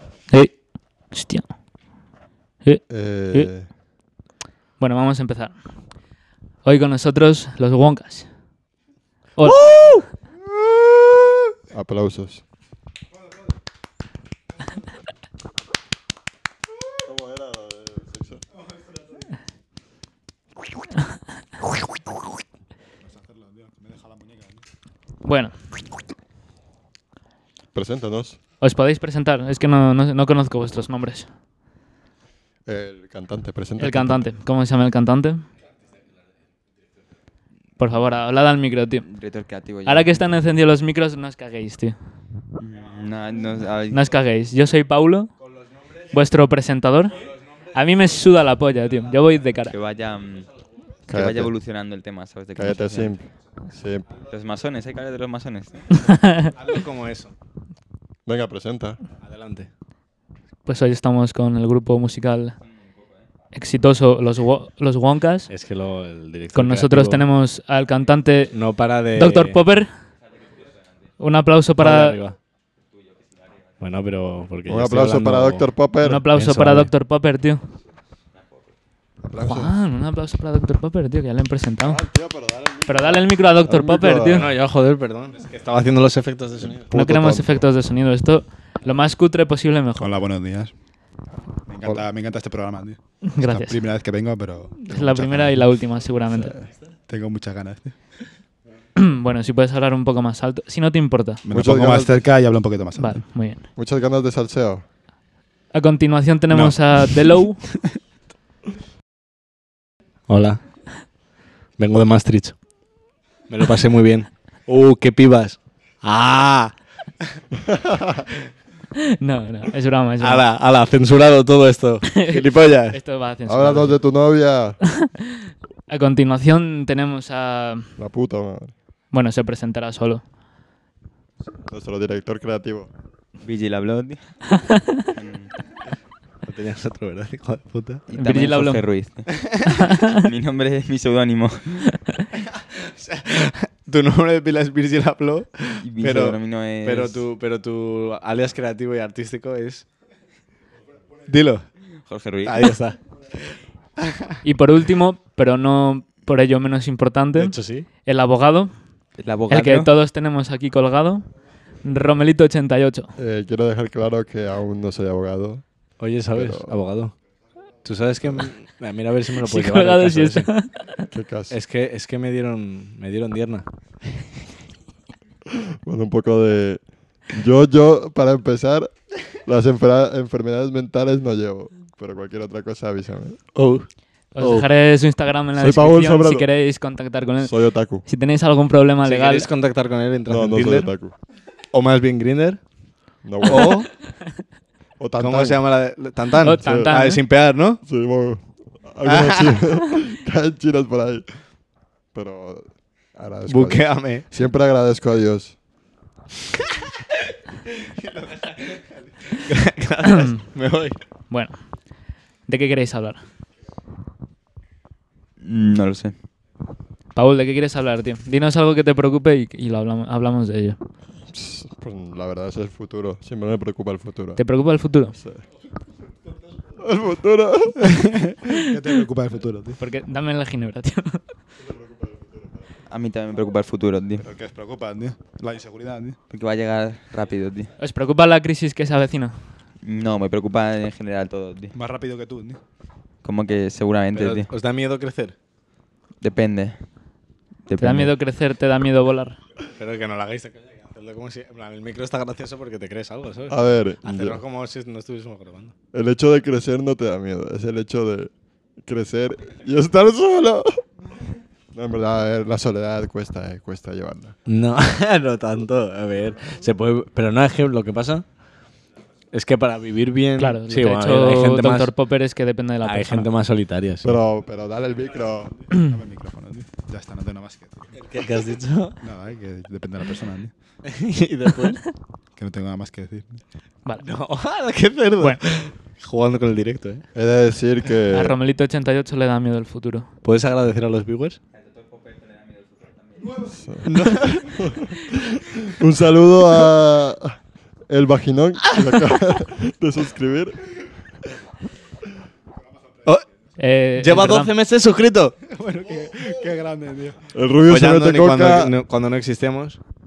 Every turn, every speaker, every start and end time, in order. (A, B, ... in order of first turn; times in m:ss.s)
0:00.3-0:00.6 A
0:01.1-0:01.5 A
0:02.6-0:03.5 A
0:02.9-0:03.7 B
0:04.8-0:05.6 A
0:06.6-0:08.3 A
0:09.4-0:10.0 A
0:09.4-0:10.0 C
0:11.7-0:12.4 B
0:17.0-0:18.4 B
0:23.0-0:24.6 D
0:25.2-0:25.6 A
0:27.7-0:28.4 B
0:28.6-0:31.3 A
0:32.7-0:34.2 B
0:33.8-0:35.5 A
0:37.8-0:39.1 A
0:39.1-0:40.2 E
0:39.9-0:42.0 A
0:42.6-0:44.1 E
0:43.9-0:45.3 A
0:46.1-0:49.8 A
0:49.7-0:50.5 E
0:51.1-0:53.2 E
0:51.1-0:51.5 B
0:52.6-0:54.1 B
0:54.2-0:56.1 E
0:56.0-0:56.5 A
0:56.6-0:57.3 C
0:58.3-0:59.0 B
0:59.2-0:59.7 C
1:00.7-1:02.6 A
1:02.7-1:03.3 E
1:03.5-1:05.5 A
1:05.5-1:07.2 C
1:06.5-1:08.6 A
1:08.5-1:09.6 C
1:09.2-1:09.9 A
1:11.2-1:12.2 A
1:11.8-1:12.4 C
1:13.8-1:15.7 C
1:14.7-1:16.3 B
1:16.0-1:17.6 A
1:16.3-1:16.9 C
1:18.4-1:18.6 E
1:19.2-1:19.8 B
1:19.4-1:22.0 A
1:21.8-1:24.5 B
1:22.9-1:24.5 A
1:24.3-1:26.8 C
1:26.8-1:27.6 B
1:26.9-1:30.2 A
1:30.0-1:30.8 D
1:31.7-1:34.9 D
1:33.3-1:33.8 A
1:34.8-1:36.6 A
1:34.9-1:35.5 B
1:37.1-1:37.9 D
1:39.0-1:41.4 A
1:41.4-1:43.3 D
1:41.5-1:42.3 B
1:43.0-1:43.6 A
1:43.8-1:44.8 B
1:45.7-1:47.7 A
1:46.5-1:47.4 C
1:50.3-1:50.6 C
1:51.8-1:52.6 C
1:53.5-1:56.8 C
1:57.6-1:58.2 B
1:59.1-2:00.4 A
2:00.2-2:03.0 C
2:02.1-2:04.0 A
2:03.5-2:04.8 B
2:05.9-2:08.0 A
2:08.0-2:08.7 B
2:09.1-2:10.2 A
2:11.7-2:12.9 B
2:13.4-2:15.5 E
2:16.4-2:18.0 C
2:18.1-2:21.9 E
2:18.2-2:18.8 A
2:19.7-2:20.2 A
2:22.4-2:29.8 C
2:25.8-2:27.2 E
2:31.3-2:31.7 C
2:32.1-2:32.8 E
2:32.4-2:34.3 C
2:34.4-2:38.8 A
2:37.4-2:37.9 C
2:39.2-2:39.9 E
2:39.5-2:41.3 A
2:41.8-2:43.1 A
2:43.2-2:45.6 B
2:46.0-2:47.1 C
2:46.3-2:46.7 B
2:47.8-2:50.5 C
2:49.4-2:51.0 A
2:51.1-2:51.6 B
2:51.5-2:53.6 C
2:55.5-3:03.4 B
3:03.6-3:04.7 C
3:04.4-3:09.5 A
3:05.6-3:06.5 B
3:07.4-3:08.0 B
3:09.0-3:10.9 C
3:10.3-3:11.1 B
3:11.7-3:12.6 C
3:13.2-3:13.9 B
3:13.5-3:13.9 C
3:15.0-3:15.6 B
3:15.2-3:17.8 C
3:16.4-3:17.2 A
3:16.6-3:16.9 B
3:17.8-3:21.3 B
3:19.0-3:19.6 C
3:22.1-3:25.6 B
3:23.5-3:24.2 C
3:28.0-3:31.0 C
3:30.1-3:30.4 A
3:31.3-3:33.2 A
3:35.4-3:36.2 E
3:37.2-3:40.8 A
3:41.3-3:44.4 B
3:44.4-3:45.2 A
3:45.2-3:45.4 B
3:46.8-3:48.0 B
3:48.0-3:49.8 D
3:49.8-3:51.2 A
3:51.6-3:52.5 B
3:52.9-3:54.2 E
3:54.2-3:56.2 D
3:56.3-3:57.7 E
3:57.8-3:59.4 A
3:59.8-4:01.7 E
4:01.7-4:02.6 D
4:03.2-4:04.5 E
4:04.1-4:05.4 C
4:06.2-4:06.8 E
4:07.7-4:08.1 E
4:07.8-4:09.4 A
4:09.8-4:15.7 C
4:13.5-4:14.4 B
4:15.9-4:20.8 B
4:21.7-4:24.4 B
4:24.5-4:28.3 C
4:29.3-4:31.9 C
4:30.4-4:33.3 A
4:32.8-4:34.2 C
4:34.0-4:35.5 B
4:35.7-4:37.9 D
4:38.0-4:39.0 C
4:39.0-4:40.5 D
4:40.8-4:41.8 C
4:42.4-4:43.4 D
4:44.0-4:47.0 C
4:47.1-4:48.4 B
4:48.1-4:50.1 A
4:50.2-4:51.4 C
4:51.5-4:53.4 E
4:53.6-4:53.8 B
4:53.8-4:54.5 C
4:54.5-5:00.9 B
5:03.6-5:04.5 A
5:04.0-5:05.4 C
5:05.5-5:07.2 D
5:07.3-5:08.7 B
5:07.7-5:09.8 C